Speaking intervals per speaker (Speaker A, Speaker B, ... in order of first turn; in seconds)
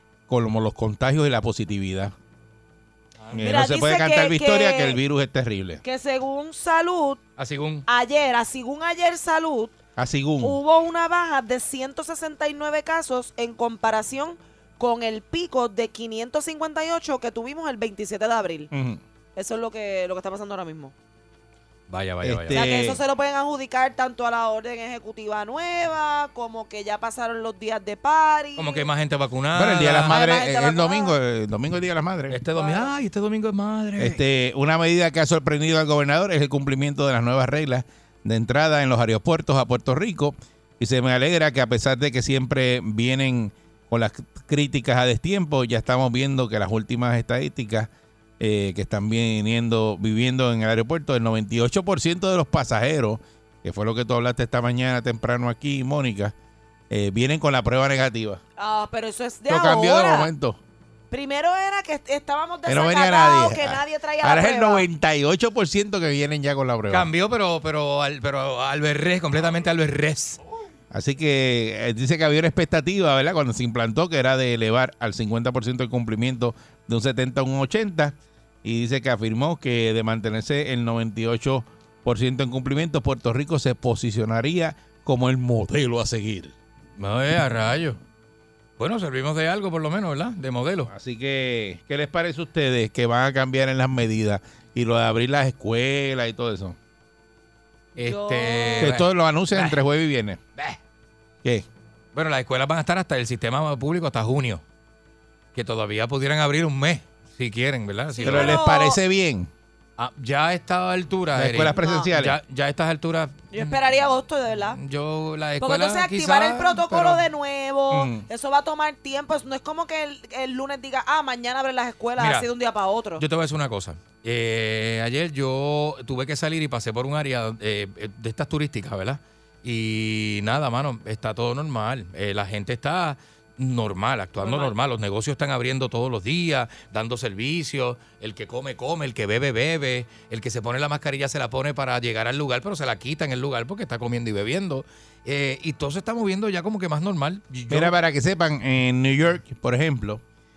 Speaker A: 0.3-2.1, 3.3-5.8, 10.0-10.6, 18.7-19.0, 22.2-23.0, 29.5-32.4, 34.0-56.3, 56.9-58.4, 59.5-60.6, 62.6-67.1, 70.9-86.5, 90.9-96.8, 98.8-100.4, 108.2-109.5, 111.3-112.4, 117.9-118.2, 147.7-150.2
Speaker B: 3.4-5.0, 5.8-7.2, 7.9-9.7, 10.4-18.7, 19.4-20.9, 22.5-28.9, 30.1-31.1, 32.5-32.9, 58.6-60.3, 61.1-64.8, 98.0-98.9, 108.1-109.0, 111.8-112.1, 113.5-114.8, 115.6-123.2, 134.4-134.7
Speaker C: 7.4-7.8, 21.9-22.6, 28.6-30.1, 32.3-34.2, 66.9-70.4, 87.0-88.0, 88.8-90.9, 98.0-99.8, 102.1-104.6, 105.5-108.6, 110.0-113.9, 114.8-117.2, 122.2-122.5, 123.2-147.9